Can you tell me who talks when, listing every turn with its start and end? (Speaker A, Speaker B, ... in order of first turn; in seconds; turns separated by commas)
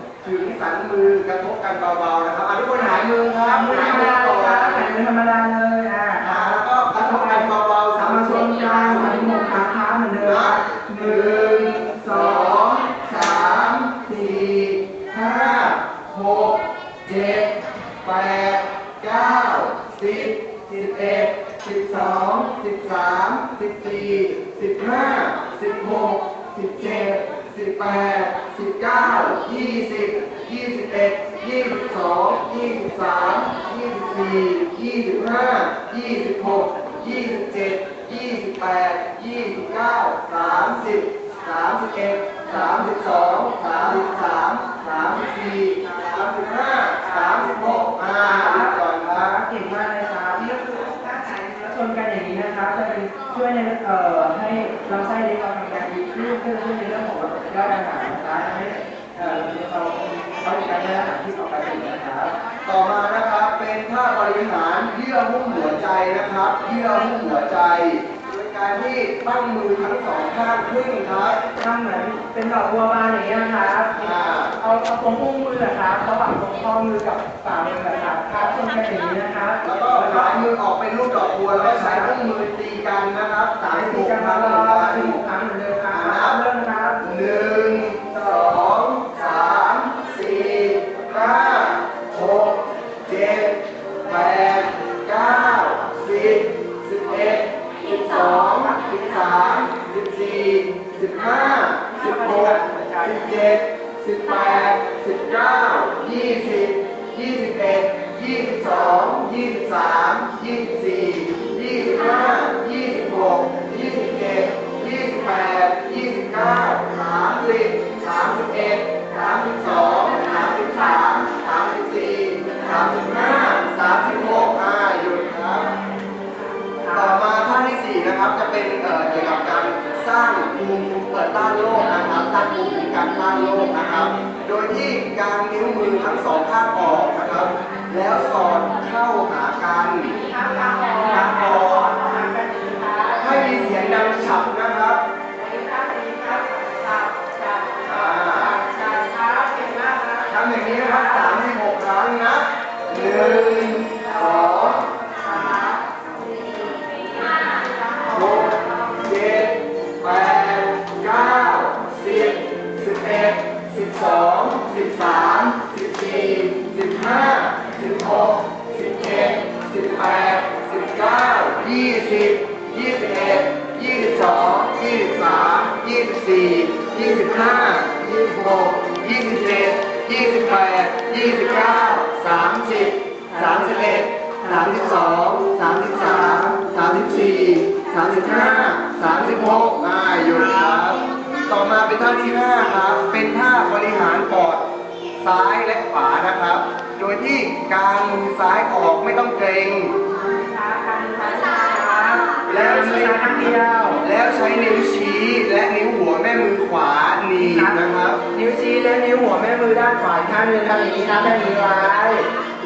Speaker A: 0.2-4.9, Speaker B: 3.5-13.7, Speaker A: 6.2-9.2, Speaker A: 10.2-49.3, Speaker B: 47.0-62.3, Speaker A: 62.6-71.4, Speaker B: 71.5-80.4, Speaker A: 73.9-74.5, Speaker A: 79.6-85.2, Speaker B: 81.5-82.2, Speaker B: 83.7-87.0, Speaker A: 85.9-86.4, Speaker A: 87.0-125.7, Speaker B: 101.9-103.3, Speaker B: 126.8-127.2, Speaker A: 126.9-140.1, Speaker B: 140.0-144.0, Speaker A: 141.1-141.9, Speaker A: 143.2-145.0, Speaker B: 145.3-151.4, Speaker A: 147.8-148.6, Speaker A: 150.3-154.8, Speaker B: 152.9-158.9, Speaker A: 158.1-194.6, Speaker B: 183.3-183.8, Speaker B: 186.0-186.6, Speaker B: 188.2-188.7, Speaker A: 195.2-199.9, Speaker B: 200.2-204.0, Speaker A: 202.4-208.2, Speaker B: 207.4-212.3